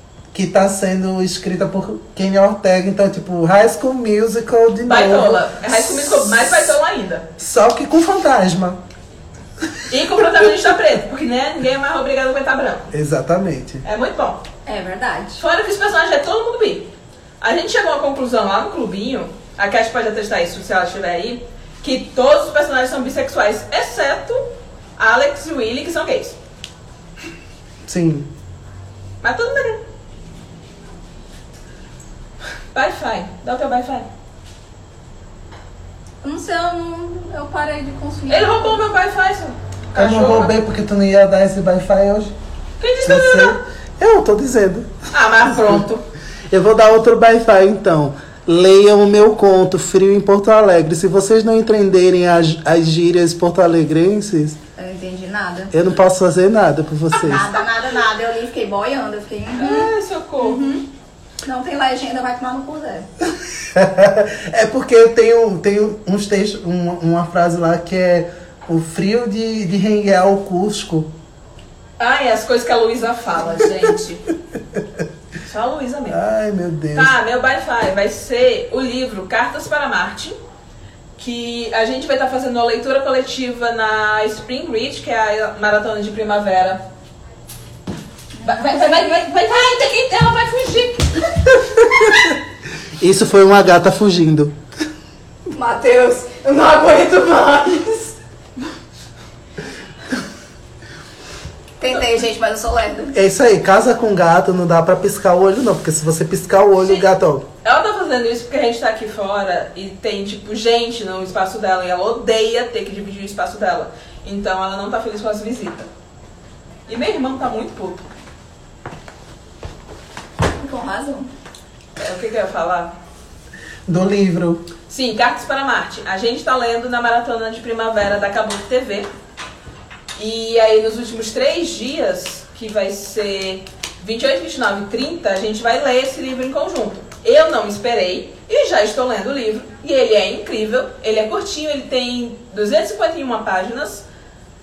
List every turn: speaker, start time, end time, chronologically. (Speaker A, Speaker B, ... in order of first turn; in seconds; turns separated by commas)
Speaker A: 0.3-6.5, Speaker B: 4.9-7.3, Speaker A: 7.4-8.8, Speaker B: 9.9-12.9, Speaker A: 12.9-13.8, Speaker B: 13.8-14.4, Speaker C: 14.7-15.4, Speaker B: 15.4-24.5, Speaker B: 25.0-26.4, Speaker A: 27.9-28.3, Speaker B: 29.2-29.8, Speaker B: 32.7-34.1, Speaker C: 36.2-38.8, Speaker B: 38.3-40.5, Speaker A: 40.0-42.3, Speaker B: 42.8-43.6, Speaker A: 43.0-44.9, Speaker B: 45.1-46.0, Speaker A: 46.5-54.6, Speaker C: 54.8-55.7, Speaker A: 55.7-57.5, Speaker C: 57.1-60.9, Speaker B: 59.6-60.7, Speaker C: 61.4-63.1, Speaker A: 63.6-71.1, Speaker B: 72.0-74.3, Speaker B: 75.4-76.2, Speaker A: 76.1-77.1, Speaker B: 76.9-80.4, Speaker B: 81.2-86.8, Speaker C: 88.3-89.7, Speaker B: 88.4-91.5, Speaker A: 93.0-94.6, Speaker C: 95.5-98.2, Speaker C: 101.8-103.2, Speaker A: 103.1-107.5, Speaker B: 107.6-115.9, Speaker B: 116.9-118.1, Speaker C: 120.6-121.3, Speaker B: 122.0-123.0, Speaker A: 123.9-124.7, Speaker B: 124.9-129.1, Speaker B: 130.2-144.1